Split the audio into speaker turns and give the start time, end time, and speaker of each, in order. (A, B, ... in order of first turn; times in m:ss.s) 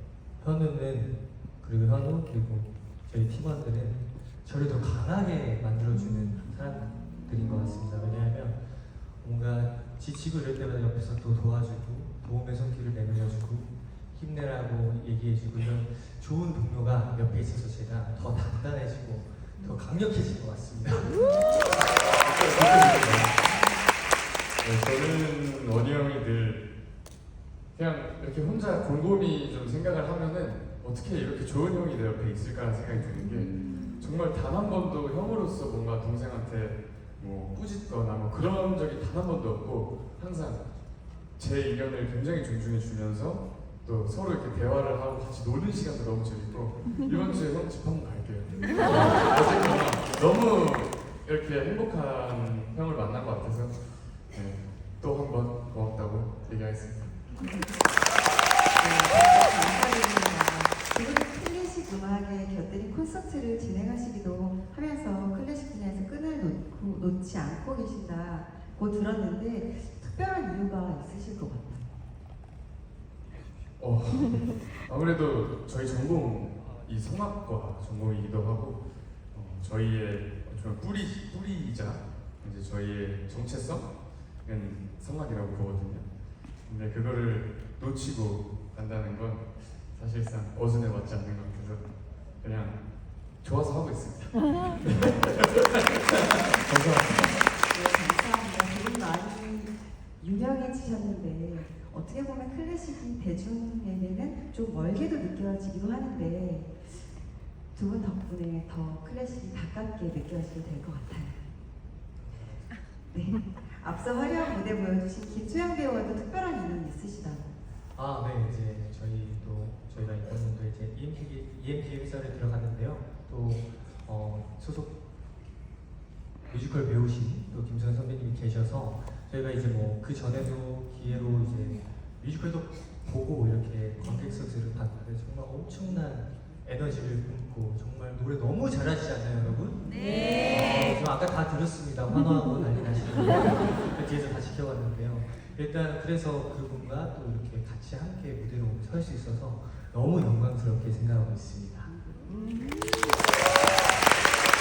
0:00.4-0:08.6 A
0:09.2-0:21.2 A
0:22.1-0:23.4 B
0:23.4-0:23.8 C
0:24.6-0:26.6 B
0:27.7-0:40.6 B
0:32.8-0:33.9 C
0:41.4-0:57.2 B
0:46.9-0:47.1 C
0:57.3-0:57.7 C
0:58.8-1:11.9 C
1:13.8-1:23.9 B
1:24.4-1:26.0 B
1:26.6-1:31.9 B
1:32.4-1:32.8 B
1:33.4-1:37.3 B
1:37.6-1:47.1 C
1:47.7-1:51.5 C
1:52.2-1:52.7 A
1:53.1-1:57.5 C
1:58.0-2:04.9 A
2:06.5-2:31.9 A
2:31.8-2:32.9 C